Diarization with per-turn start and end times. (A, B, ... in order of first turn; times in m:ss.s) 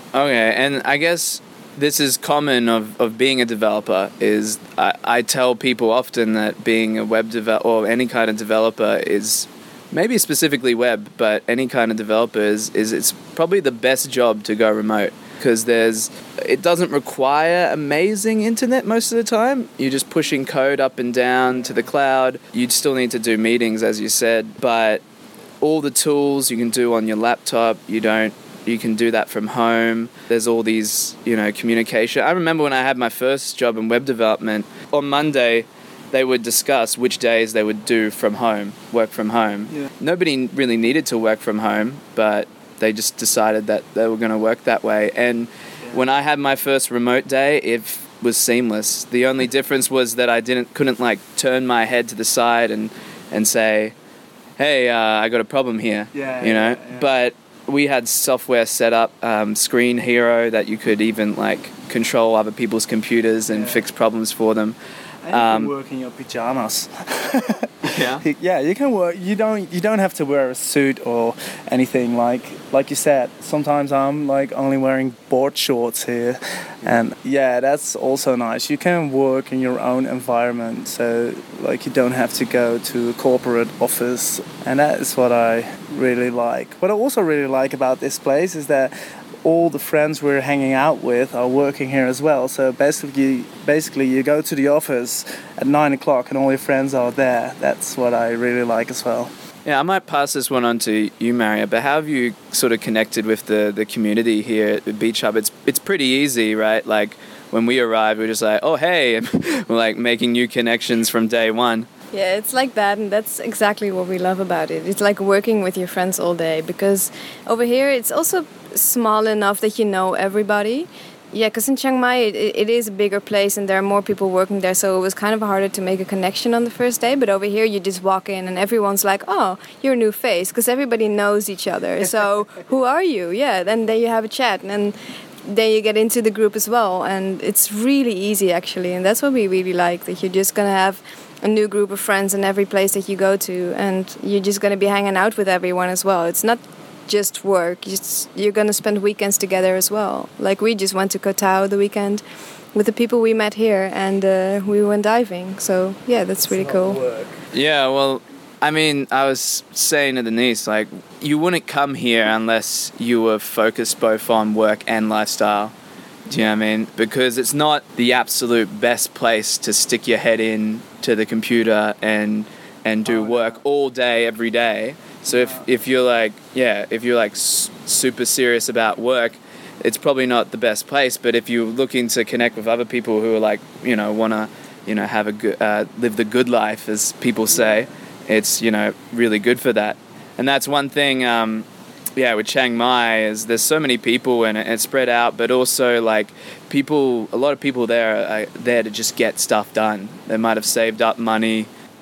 0:00.1-0:25.0 A
0:25.6-0:54.0 A
0:54.6-1:04.8 A
0:56.1-0:57.1 B
1:03.5-1:03.8 B
1:05.2-1:39.3 B
1:05.3-1:05.7 A
1:07.8-1:08.2 A
1:39.6-1:51.9 A
1:52.1-2:32.2 C
2:32.7-2:37.0 C
2:36.4-2:37.4 B
2:37.5-2:45.7 A
2:46.3-3:11.6 A
2:53.1-2:53.6 B
2:55.3-2:55.6 B
3:12.2-3:21.7 A